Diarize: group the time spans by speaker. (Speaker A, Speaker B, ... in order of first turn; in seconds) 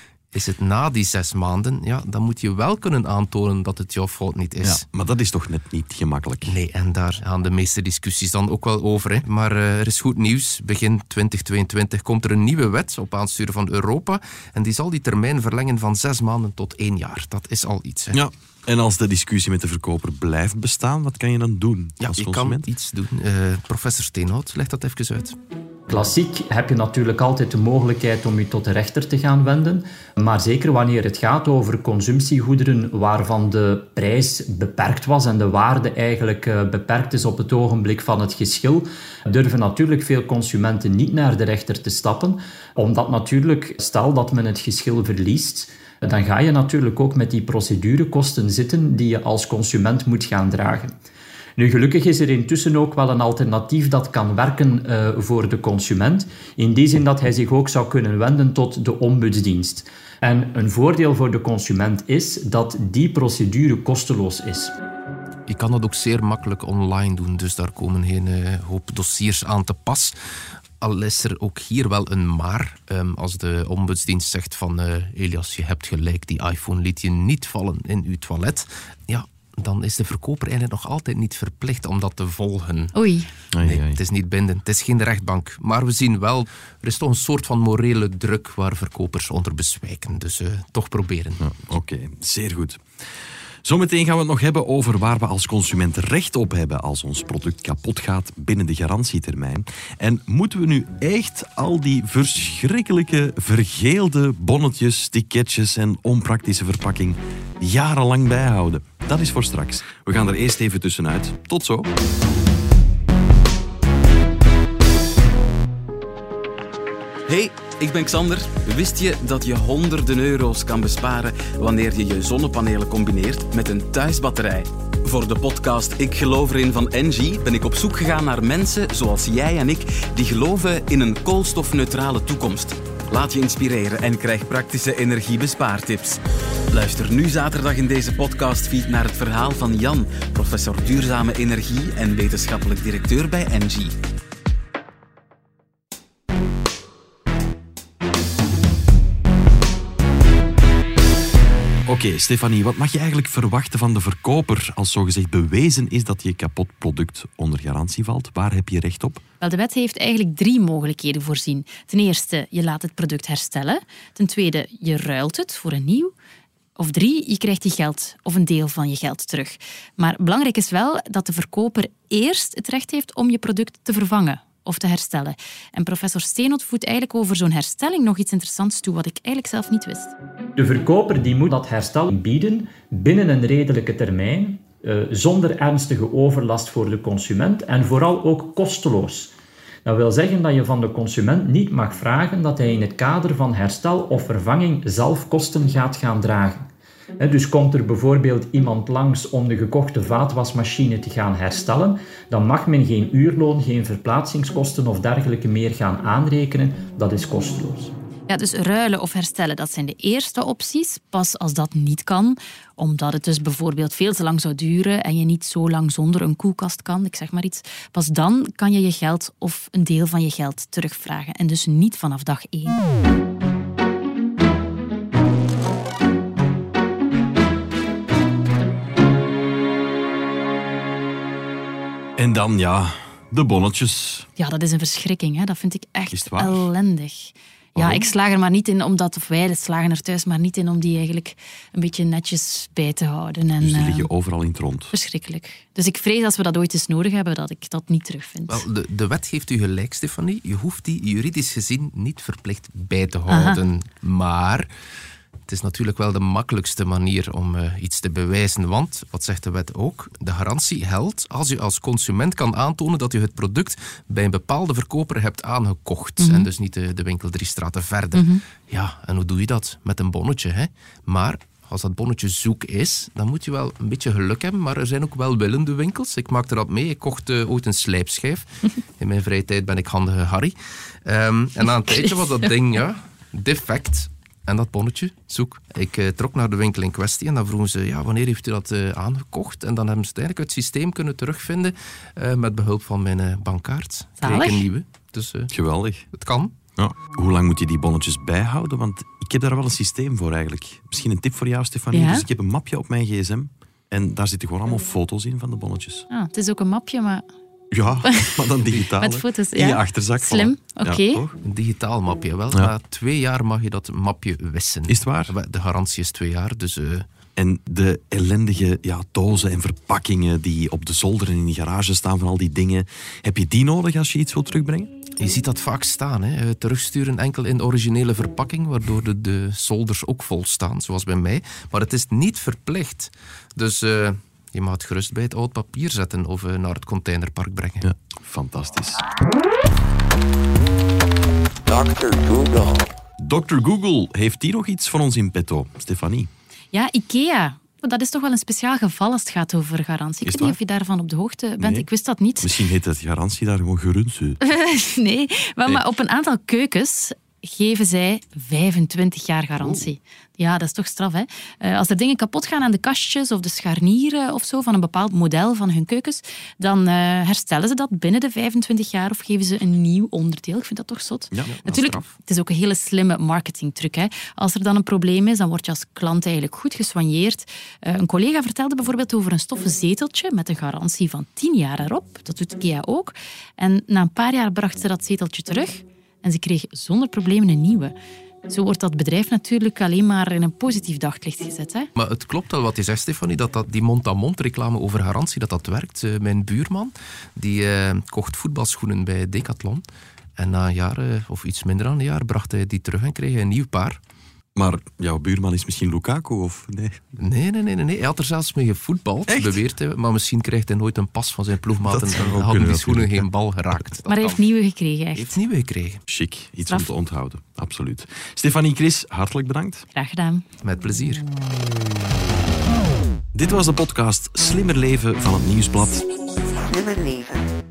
Speaker A: 0.3-4.8, 6.5-18.2, 22.0-25.4, 65.5-70.2, 70.8-82.9, 83.6-91.4, 248.5-254.7, 255.5-295.5, 296.1-296.6, 308.7-309.2, 311.4-317.1, 325.2-337.9, 392.0-399.9, 400.4-404.0, 407.2-414.5, 415.1-416.0, 420.6-421.2
Speaker B: 4.6-6.6, 18.1-22.7, 83.5-84.0, 91.4-92.8, 93.6-111.9, 151.9-159.2, 232.2-234.3, 236.1-236.7, 237.8-238.1, 243.6-244.9, 295.5-296.1, 296.8-306.1, 307.7-311.4, 314.9-315.3, 317.4-324.9, 337.8-339.0, 343.2-346.3, 350.2-350.6, 351.6-351.9, 352.4-354.4, 359.6-359.9, 371.3-372.1, 404.6-407.0, 409.3-409.6, 411.8-413.3, 416.1-419.9, 423.3-426.1
Speaker C: 25.9-50.9, 51.6-64.7, 180.6-189.3, 189.8-196.6, 197.2-207.9
Speaker D: 82.9-83.3, 159.4-166.1, 166.8-180.1, 208.3-222.8, 234.4-244.1, 244.9-248.7, 253.3-253.6, 266.2-266.5, 268.1-268.4, 281.7-282.3, 294.2-294.7, 301.9-302.2, 306.1-307.2, 308.0-311.2, 346.7-352.6, 354.4-388.0, 388.5-391.9, 414.1-415.4, 419.9-420.4
Speaker E: 117.3-136.2, 136.7-143.9